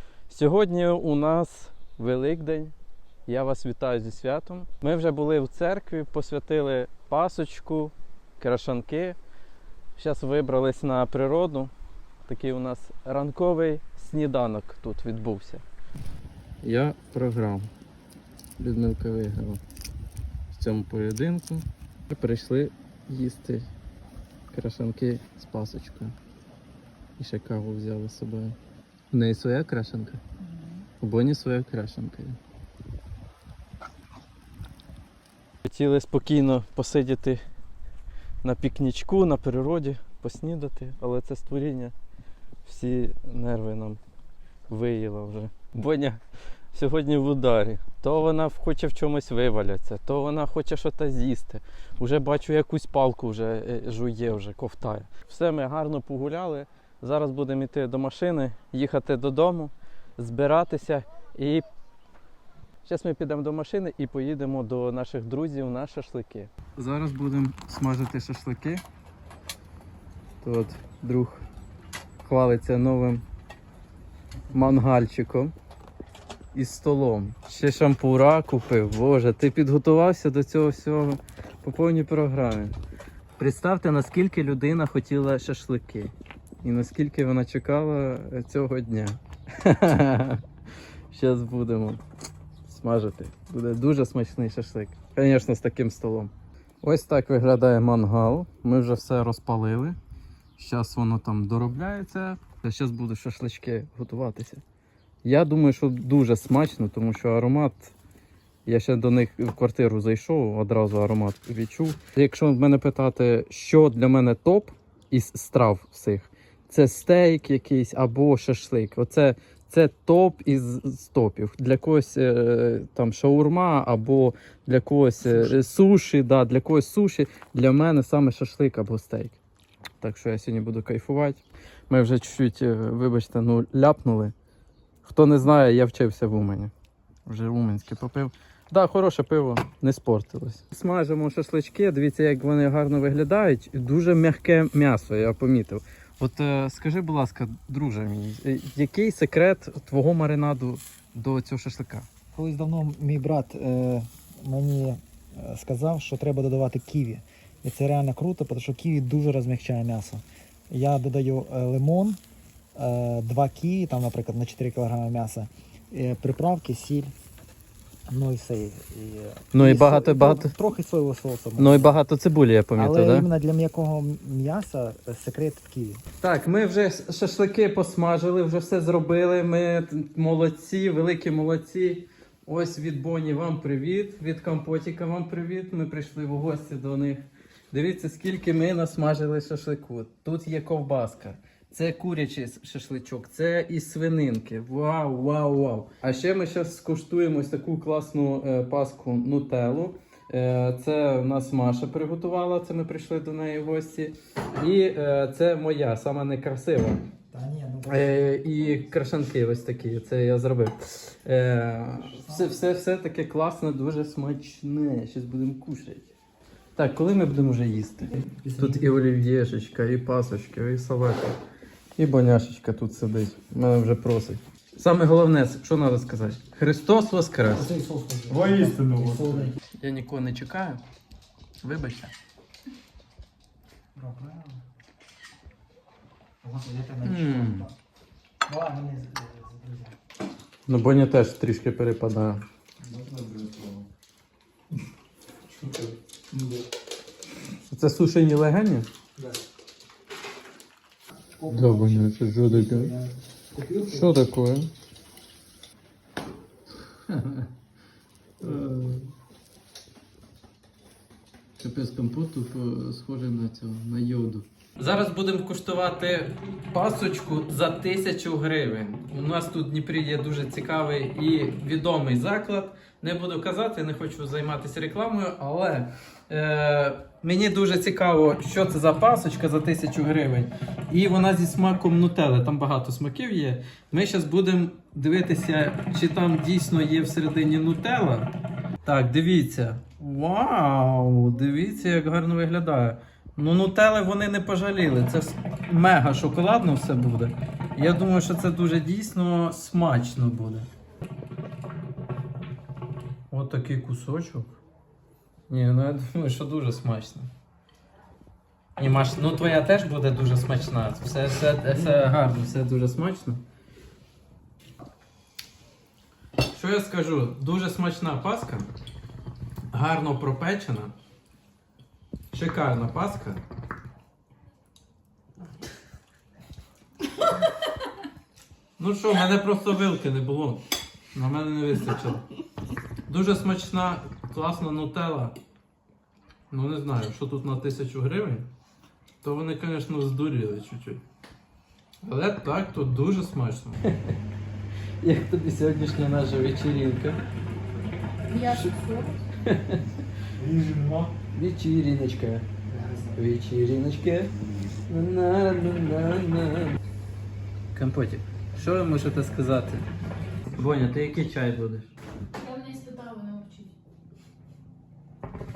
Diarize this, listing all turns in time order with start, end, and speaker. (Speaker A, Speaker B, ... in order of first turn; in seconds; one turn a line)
Speaker A: 0.3-2.7
Speaker A: 3.3-9.2
Speaker A: 10.0-11.7
Speaker A: 12.2-15.6
Speaker A: 16.6-17.7
Speaker A: 18.6-19.6
Speaker A: 20.5-23.7
Speaker A: 24.5-26.1
Speaker A: 27.2-28.6
Speaker A: 29.1-30.2
Speaker B: 30.4-30.8
Speaker A: 31.0-32.4
Speaker A: 35.6-37.4
Speaker A: 38.4-41.9
Speaker A: 42.6-44.0
Speaker A: 44.7-46.2
Speaker A: 46.7-61.7
Speaker A: 62.8-68.8
Speaker A: 70.4-71.5
Speaker A: 72.2-73.2
Speaker A: 74.5-75.5
Speaker A: 76.5-82.8
Speaker A: 83.4-90.4
Speaker A: 91.1-92.0
Speaker A: 92.7-100.0
Speaker A: 100.6-104.6
Speaker A: 105.2-108.0
Speaker A: 108.7-129.4
Speaker A: 130.0-134.3
Speaker A: 135.0-136.7
Speaker A: 137.3-152.1
Speaker C: 152.3-162.2
Speaker C: 162.8-167.1
Speaker C: 168.1-172.0
Speaker A: 169.5-170.5
Speaker A: 171.6-173.3
Speaker C: 172.8-176.0
Speaker A: 176.2-207.0
Speaker C: 207.3-208.7
Speaker A: 207.9-216.1
Speaker C: 211.9-212.6
Speaker A: 216.7-221.4
Speaker C: 218.1-218.9
Speaker A: 222.0-227.7
Speaker C: 227.5-229.6
Speaker A: 228.3-230.8
Speaker A: 231.6-232.1
Speaker C: 233.9-234.6
Speaker C: 236.4-237.7
Speaker A: 237.0-237.7
Speaker C: 238.4-239.9
Speaker A: 240.7-242.4
Speaker C: 242.8-243.8
Speaker C: 245.6-246.6
Speaker A: 247.7-248.9
Speaker C: 249.2-249.4
Speaker C: 251.4-254.2
Speaker A: 251.5-252.9
Speaker A: 253.9-254.7
Speaker A: 257.1-257.5
Speaker A: 258.4-259.1
Speaker A: 261.6-288.3
Speaker A: 288.8-300.7
Speaker A: 303.3-304.6
Speaker A: 305.5-307.3
Speaker A: 308.8-313.4
Speaker A: 316.5-318.7
Speaker A: 319.7-320.9
Speaker A: 322.3-323.4
Speaker A: 328.8-332.2
Speaker A: 333.1-335.4
Speaker A: 336.5-338.5
Speaker A: 339.2-341.0
Speaker A: 342.0-344.1
Speaker A: 345.0-347.2
Speaker B: 348.3-349.2
Speaker A: 349.4-349.9
Speaker C: 350.4-351.1
Speaker A: 351.3-352.4
Speaker C: 352.7-353.2
Speaker A: 353.1-354.3
Speaker A: 354.9-356.8
Speaker A: 357.7-359.9
Speaker A: 360.5-361.9
Speaker B: 362.3-363.7